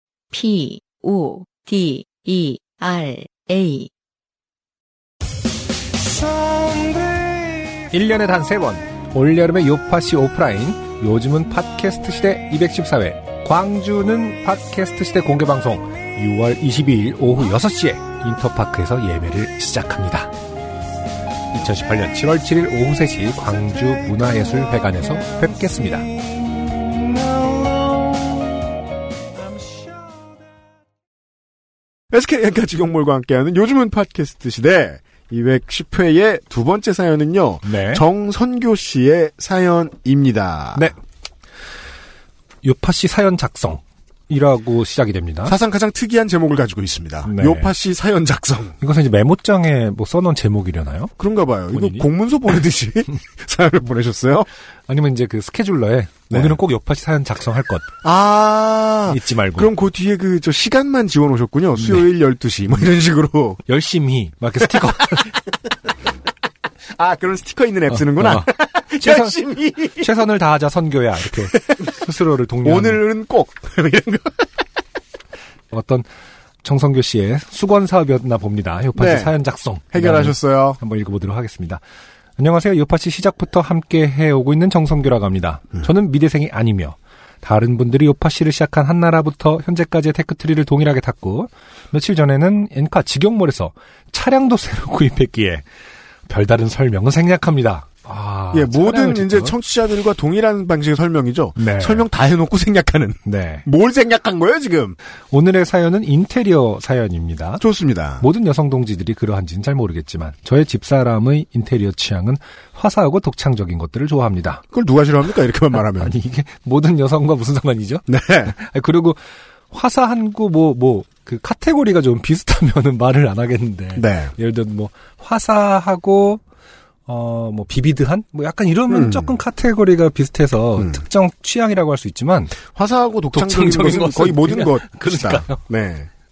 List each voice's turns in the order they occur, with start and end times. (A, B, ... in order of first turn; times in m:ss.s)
0:00.3-0:03.9 A
0:07.7-0:20.3 B
0:21.5-0:26.1 B
0:32.1-0:40.9 C
0:37.6-0:38.0 B
0:42.6-0:45.5 B
0:45.4-0:48.7 C
0:47.2-0:47.7 B
0:48.8-0:51.1 B
0:51.2-0:54.5 C
0:51.7-0:52.1 B
0:54.9-0:57.9 B
0:56.3-0:56.6 C
0:58.0-1:03.6 C
0:59.1-0:59.7 B
1:01.8-1:02.1 B
1:03.6-1:05.4 B
1:06.9-1:10.1 C
1:07.9-1:09.4 B
1:09.9-1:13.0 B
1:12.6-1:14.4 C
1:15.7-1:16.1 B
1:16.6-1:21.8 B
1:19.0-1:19.3 C
1:19.9-1:20.8 C
1:22.4-1:35.6 B
1:36.3-1:39.6 B
1:38.5-1:45.0 C
1:41.6-1:42.1 B
1:43.2-1:43.6 B
1:45.3-1:47.6 B
1:47.6-1:48.2 C
1:48.2-1:54.6 B
1:54.7-1:56.1 C
1:55.7-2:06.4 B
1:58.1-1:58.5 C
2:04.0-2:04.3 C
2:07.0-2:12.6 B
2:08.9-2:09.4 C
2:12.7-2:16.1 C
2:13.3-2:15.6 B